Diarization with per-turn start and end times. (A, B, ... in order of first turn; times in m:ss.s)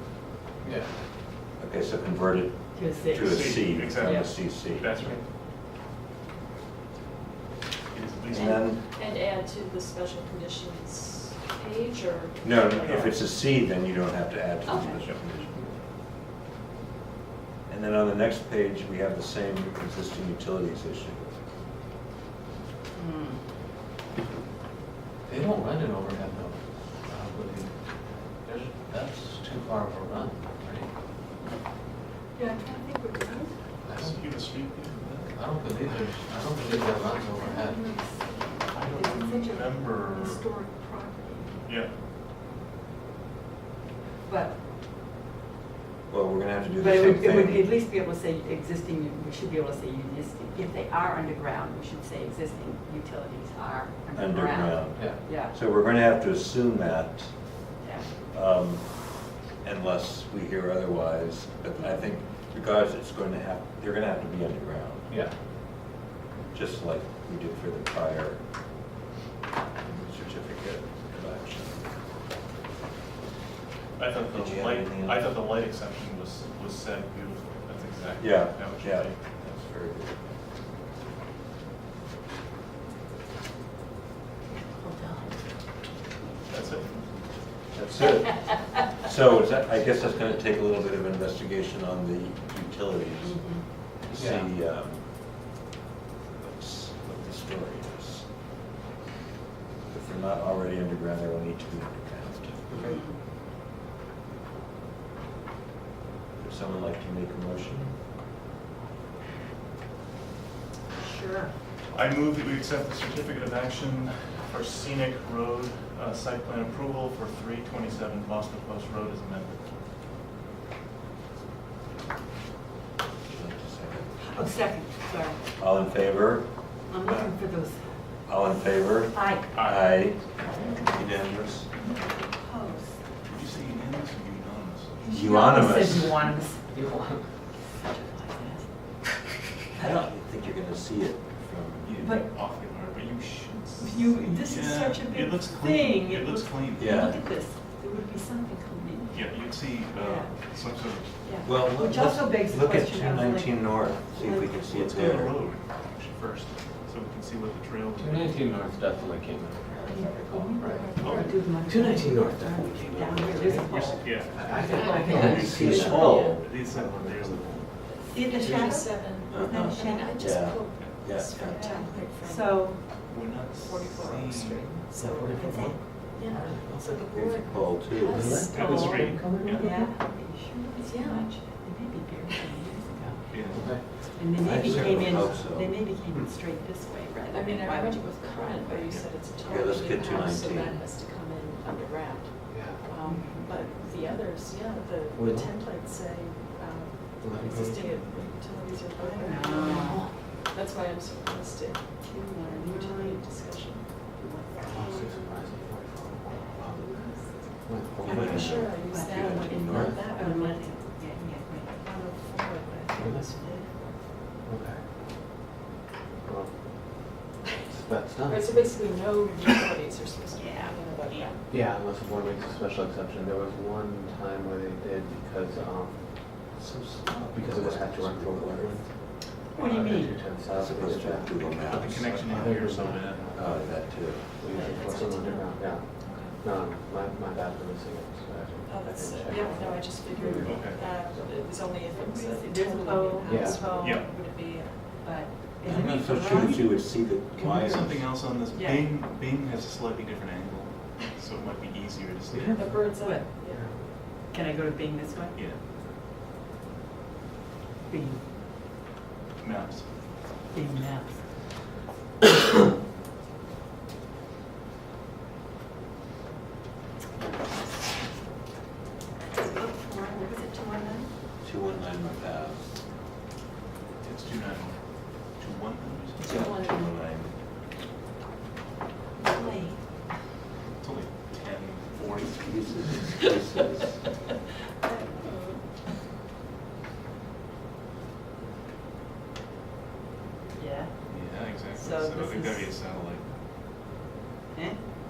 0:00.6-0:00.9 A
0:01.6-0:05.0 B
0:02.7-0:04.3 C
0:03.2-0:05.3 D
0:07.9-0:08.6 D
0:08.3-0:08.8 B
0:08.3-0:13.2 E
0:12.4-0:15.7 B
0:12.8-0:13.2 D
0:14.7-0:15.0 C
0:15.0-0:15.6 D
0:17.7-0:21.4 B
0:23.0-0:23.4 C
0:25.2-0:27.8 A
0:28.3-0:30.9 A
0:32.3-0:33.6 C
0:33.8-0:34.3 A
0:33.8-0:37.1 D
0:35.3-0:37.9 A
0:37.3-0:41.8 C
0:38.7-0:40.5 D
0:41.6-0:41.9 D
0:44.2-0:44.6 C
0:46.1-0:47.7 B
0:46.7-0:55.5 C
0:54.1-0:57.6 B
0:54.9-0:55.3 A
0:57.8-0:58.1 C
0:58.2-1:05.2 B
1:01.7-1:02.3 C
1:06.5-1:08.4 B
1:09.8-1:11.9 B
1:14.0-1:19.2 D
1:14.3-1:15.3 B
1:18.2-1:20.4 B
1:24.5-1:25.6 C
1:26.4-1:27.2 D
1:27.7-1:35.5 B
1:33.2-1:33.8 C
1:34.1-1:34.5 A
1:36.3-1:38.3 B
1:39.8-1:42.8 B
1:42.7-1:43.0 A
1:42.8-1:43.2 C
1:46.4-1:48.0 B
1:51.0-1:51.5 C
1:51.9-1:59.6 D
2:03.3-2:04.1 B
2:04.1-2:05.5 C
2:05.5-2:07.4 B
2:06.8-2:08.2 C
2:08.2-2:11.7 B
2:09.1-2:09.6 C
2:09.5-2:10.9 D
2:10.5-2:11.2 C
2:11.7-2:13.0 C
2:13.2-2:15.1 D
2:15.0-2:16.6 C
2:15.1-2:16.3 B
2:16.7-2:17.3 A
2:17.6-2:19.4 C
2:19.8-2:22.0 B
2:21.8-2:27.1 D
2:22.0-2:22.4 C
2:23.8-2:30.4 C
2:26.7-2:27.2 B
2:29.1-2:31.3 D
2:31.0-2:34.6 C
2:31.4-2:35.4 B
2:34.5-2:38.5 D
2:38.0-2:41.0 A
2:39.8-2:45.8 C
2:41.0-2:41.4 D
2:41.6-2:47.7 A
2:43.6-2:47.8 D
2:44.7-2:46.4 E
2:45.2-2:46.4 B
2:47.8-2:52.7 E
2:48.1-2:50.3 C
2:48.4-2:48.7 D
2:49.1-2:51.6 B
2:51.5-2:53.2 C
2:53.1-2:54.9 D
2:53.6-2:59.3 E
2:55.0-2:57.0 A
2:55.4-2:56.4 C
2:56.9-2:58.3 B
2:58.0-2:59.9 A
2:58.3-2:59.9 D
2:59.4-3:08.9 C
3:00.8-3:01.5 E
3:03.3-3:03.7 D
3:03.5-3:04.1 A
3:04.3-3:05.8 B
3:04.8-3:05.4 A
3:07.3-3:24.0 E
3:09.4-3:10.8 B
3:12.5-3:12.8 A
3:13.0-3:13.8 C
3:15.1-3:15.6 A
3:17.2-3:17.8 A
3:17.4-3:18.7 D
3:19.0-3:20.3 C
3:22.0-3:23.3 C
3:24.0-3:25.3 C
3:24.6-3:28.7 A
3:26.4-3:27.6 C
3:28.0-3:30.0 B
3:28.0-3:31.0 E
3:28.8-3:31.9 C
3:29.7-3:30.0 A
3:31.8-3:33.8 E
3:32.9-3:33.2 A
3:34.4-3:34.8 A
3:36.2-3:38.8 A
3:38.2-3:41.4 E
3:40.3-3:41.4 C
3:41.5-3:46.4 A
3:46.4-3:48.8 B
3:47.3-4:01.5 A
3:49.5-3:50.4 C
3:50.4-3:52.2 B
3:51.6-3:53.4 D
3:53.3-3:54.5 B
3:54.5-3:56.3 E
3:54.6-3:54.9 C
3:58.6-4:05.0 E
4:00.1-4:00.5 C
4:00.4-4:00.8 D
4:01.8-4:04.0 C
4:03.2-4:03.6 A
4:03.8-4:04.1 D
4:05.0-4:06.9 C
4:05.6-4:08.2 B
4:06.0-4:12.8 D
4:08.4-4:08.9 C
4:12.3-4:12.6 A
4:12.5-4:13.7 E
4:12.9-4:13.3 C
4:13.5-4:13.8 A
4:14.1-4:15.4 C
4:15.3-4:15.6 D
4:17.8-4:18.3 C
4:19.4-4:19.9 D
4:20.5-4:21.3 C
4:29.2-4:31.1 C
4:31.4-4:32.6 B
4:34.0-4:36.4 D
4:36.2-4:36.9 E
4:36.2-4:37.3 B
4:39.2-4:40.0 C
4:39.3-4:39.5 E
4:40.8-4:42.7 D
4:42.2-4:44.0 B
4:44.8-4:45.6 E
4:50.5-4:51.1 C
4:51.1-4:53.3 D
4:51.7-4:52.8 C
4:54.5-4:54.8 C